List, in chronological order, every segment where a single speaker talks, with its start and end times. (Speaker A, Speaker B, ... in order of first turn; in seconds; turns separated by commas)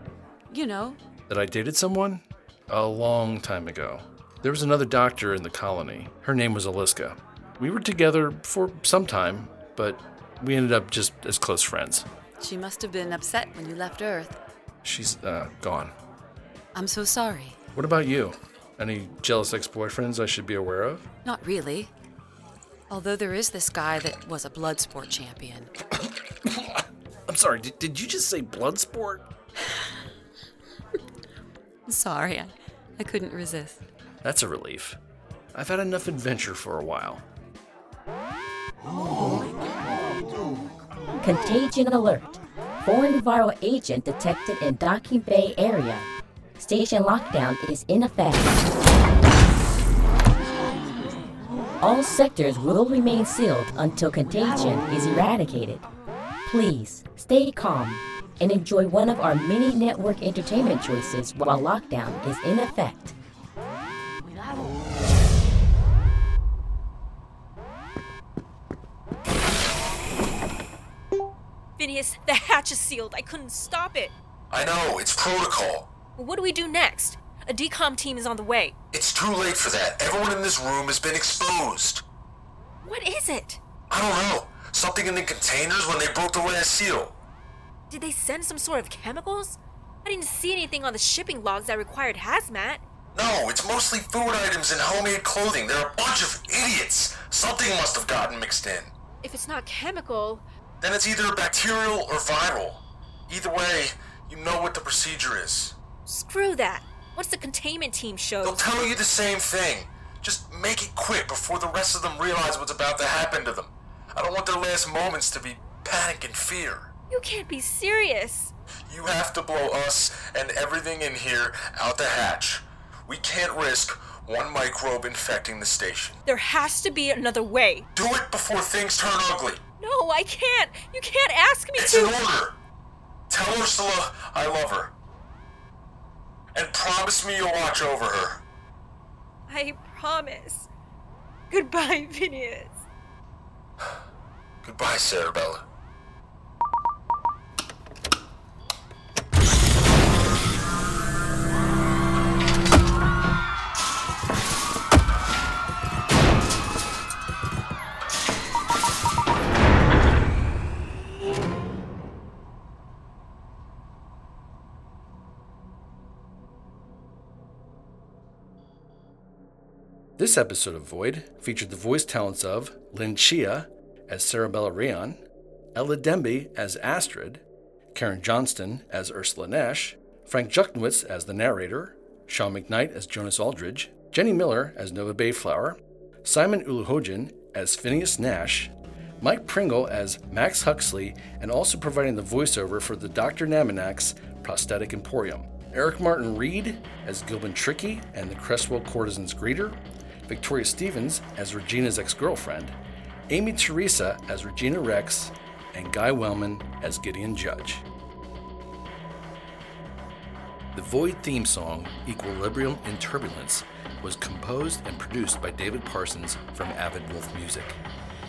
Speaker A: 0.5-1.0, Speaker B: 1.3-12.1, Speaker A: 12.4-14.3, Speaker B: 14.8-15.9, Speaker A: 16.7-17.6, Speaker B: 17.7-21.1, Speaker A: 21.2-21.9, Speaker A: 22.9-25.7, Speaker B: 26.5-29.2, Speaker A: 31.9-33.8, Speaker B: 34.2-35.0, Speaker B: 35.5-37.2, Speaker C: 41.2-48.6, Speaker C: 51.8-55.8, Speaker C: 56.5-63.1, Speaker D: 71.8-74.1, Speaker E: 74.5-75.9, Speaker D: 76.2-78.8, Speaker E: 78.9-82.0, Speaker D: 82.8-83.6, Speaker E: 83.9-87.1, Speaker D: 87.9-92.8, Speaker E: 93.1-98.9, Speaker D: 99.2-100.4, Speaker E: 100.8-105.8, Speaker D: 106.0-108.6, Speaker E: 108.4-116.9, Speaker D: 117.1-118.5, Speaker E: 118.9-126.2, Speaker D: 126.2-127.9, Speaker E: 127.9-129.6, Speaker D: 129.8-132.2, Speaker E: 131.8-132.6, Speaker E: 133.3-134.9, Speaker E: 136.5-138.4, Speaker D: 139.5-140.7, Speaker D: 141.5-142.8, Speaker E: 144.6-145.6, Speaker B: 170.2-175.2, Speaker B: 175.7-177.4, Speaker B: 177.9-202.8, Speaker B: 203.3-207.8, Speaker B: 210.7-217.8